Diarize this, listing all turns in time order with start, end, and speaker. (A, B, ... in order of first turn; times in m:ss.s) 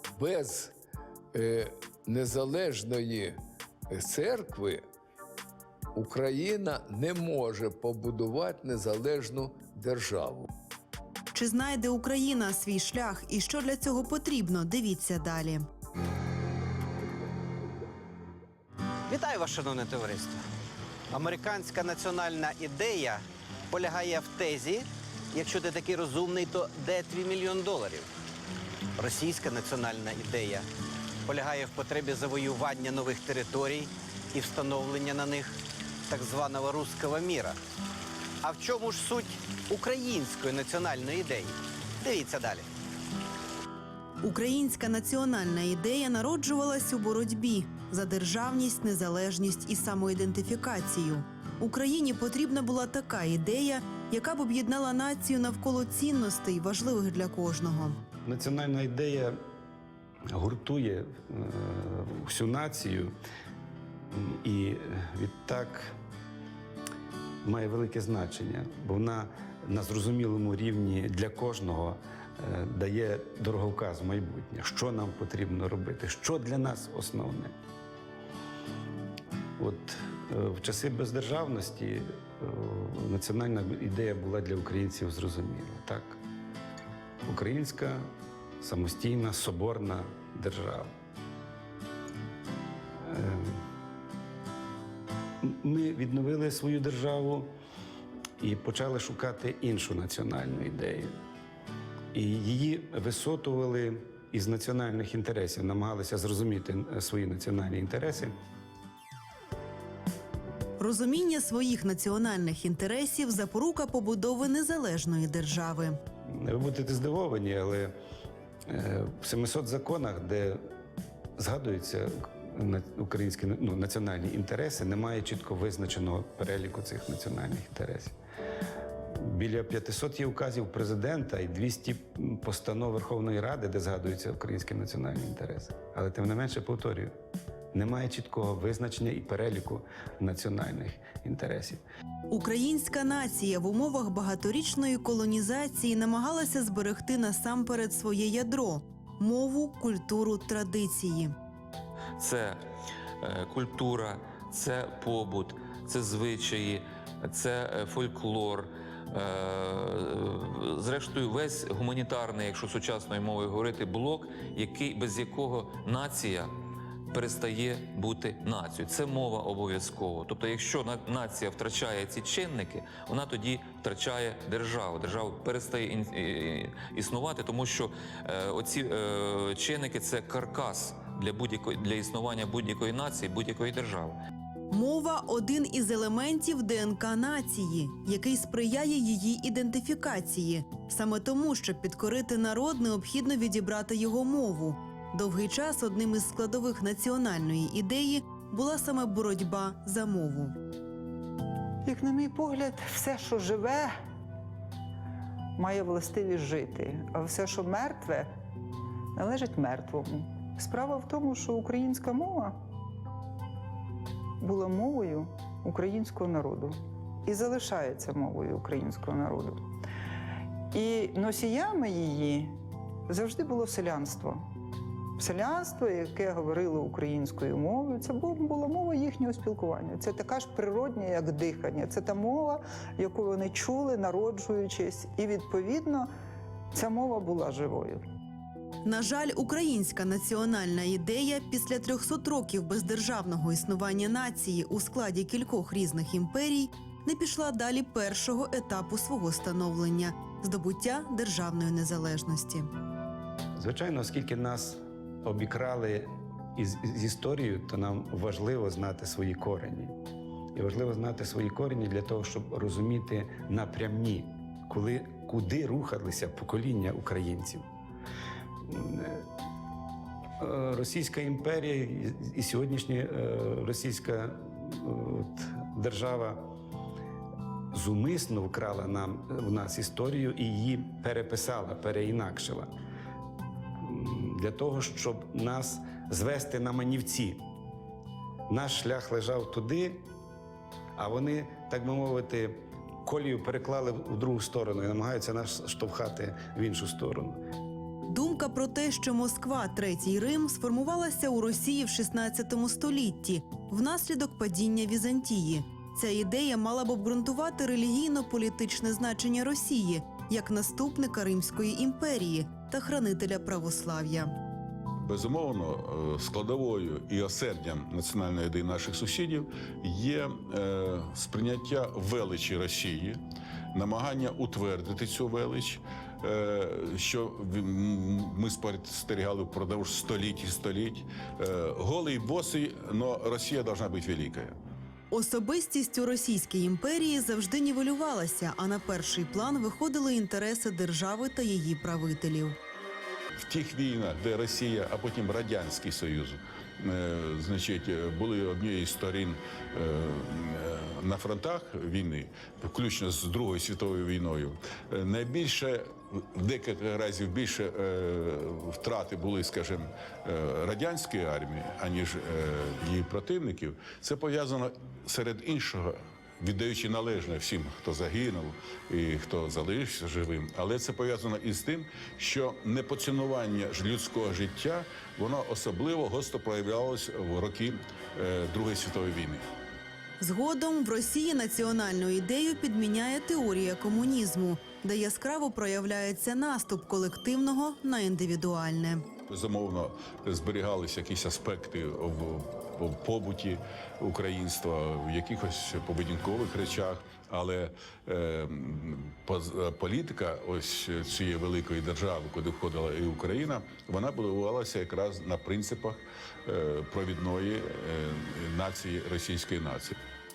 0:00.2-0:00.8 A
0:01.3-0:03.4 A
0:03.9-0:04.8 A
0:06.0-0:10.5 A
0:11.3-0:15.7 B
0:19.1-0:20.4 C
0:21.1-0:28.1 C
0:29.0-0:30.7 C
0:31.3-0:35.6 C
0:36.1-0:37.6 C
0:38.4-0:42.7 C
0:44.2-0:58.0 B
0:58.2-0:59.4 D
1:00.3-1:03.1 D
1:04.1-1:05.9 D
1:07.4-1:17.5 D
1:19.6-1:26.2 D
1:27.2-1:28.1 D
1:28.6-1:30.9 D
1:33.0-1:33.6 D
1:35.4-1:37.5 D
1:38.4-1:41.1 D
1:42.1-1:48.3 D
1:50.8-1:56.0 B
1:56.3-1:57.9 D
1:58.7-2:00.6 D
2:01.4-2:08.2 D
2:09.2-2:17.1 D
2:17.7-2:21.8 D
2:22.3-2:31.3 B
2:32.2-2:32.6 E
2:33.2-2:46.5 E
2:47.1-3:04.2 E
3:04.7-3:20.6 B
3:21.8-3:23.9 F
3:25.6-3:28.3 F
3:29.2-3:32.6 F
3:34.4-3:39.6 F
3:40.7-3:42.5 F
3:43.1-3:44.4 F
3:45.2-3:56.1 F
3:56.7-3:58.0 F
3:58.8-4:12.7 B
4:13.6-4:19.9 D
4:20.6-4:27.6 D
4:28.7-4:29.2 D
4:30.4-4:36.4 D
4:37.7-4:42.7 D
4:43.8-4:47.4 D
4:48.5-4:50.1 D
4:51.0-4:57.4 D
4:58.1-5:14.3 B
5:15.0-5:23.2 G
5:23.7-5:34.6 G
5:35.1-5:42.6 B
5:43.5-6:19.4 G
6:20.2-6:29.0 B
6:29.3-6:50.0 G